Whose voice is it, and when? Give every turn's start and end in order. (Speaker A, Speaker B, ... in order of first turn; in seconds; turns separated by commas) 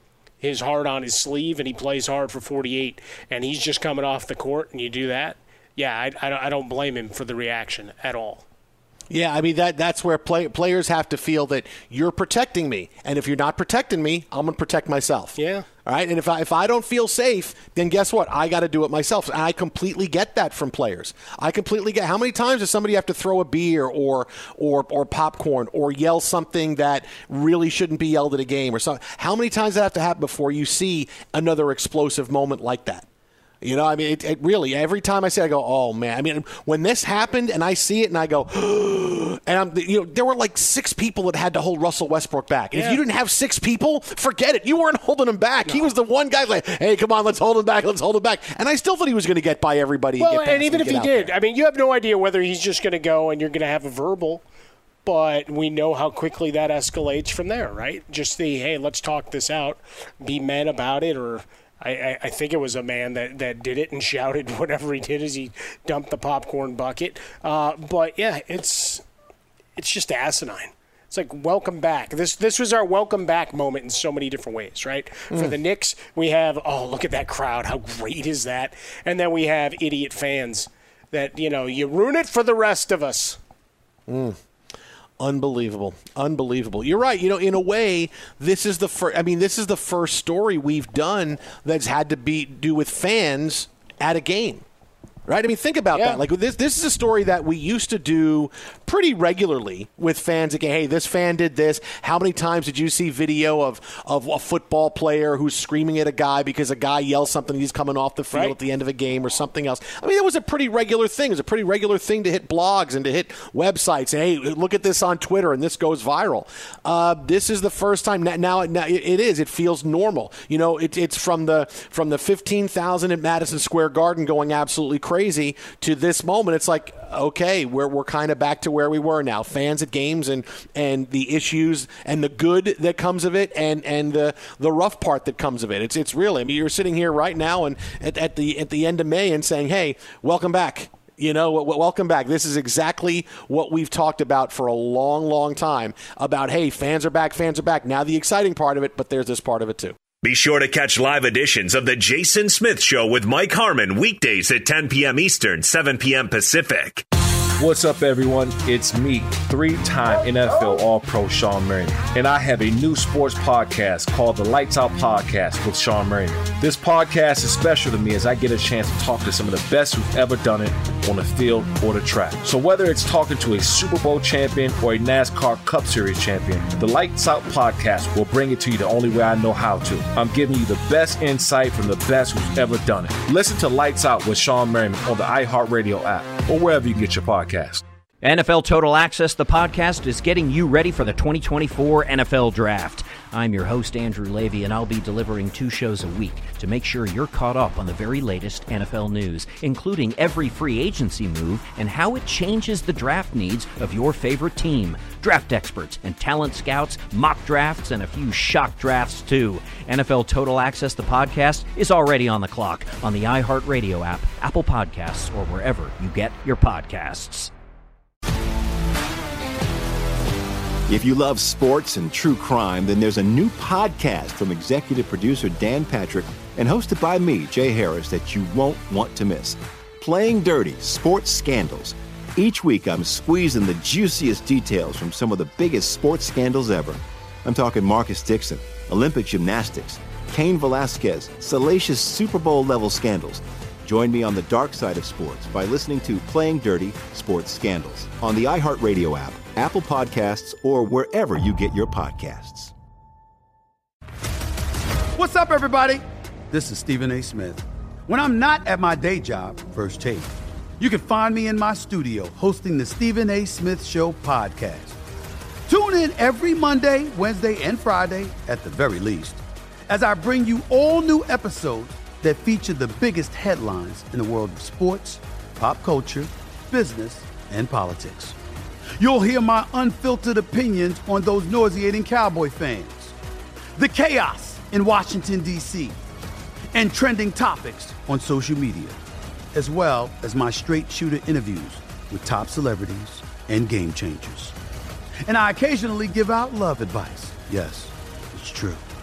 Speaker A: 0.4-8.4, Speaker B: 9.1-33.0, Speaker A: 15.3-15.7, Speaker B: 33.6-51.3, Speaker A: 42.7-43.0, Speaker A: 45.6-45.9, Speaker A: 50.2-54.4, Speaker A: 55.0-69.0, Speaker A: 69.8-83.4, Speaker B: 84.1-84.4, Speaker B: 85.2-94.6, Speaker B: 95.3-150.0, Speaker A: 95.9-96.2, Speaker C: 150.2-157.0, Speaker D: 157.6-187.8, Speaker E: 188.2-217.5, Speaker F: 220.9-252.7, Speaker G: 255.2-260.3, Speaker G: 260.8-265.0, Speaker G: 265.7-278.3, Speaker G: 279.0-283.1, Speaker G: 283.8-285.9, Speaker G: 286.7-289.0, Speaker G: 289.5-294.5, Speaker G: 295.2-298.8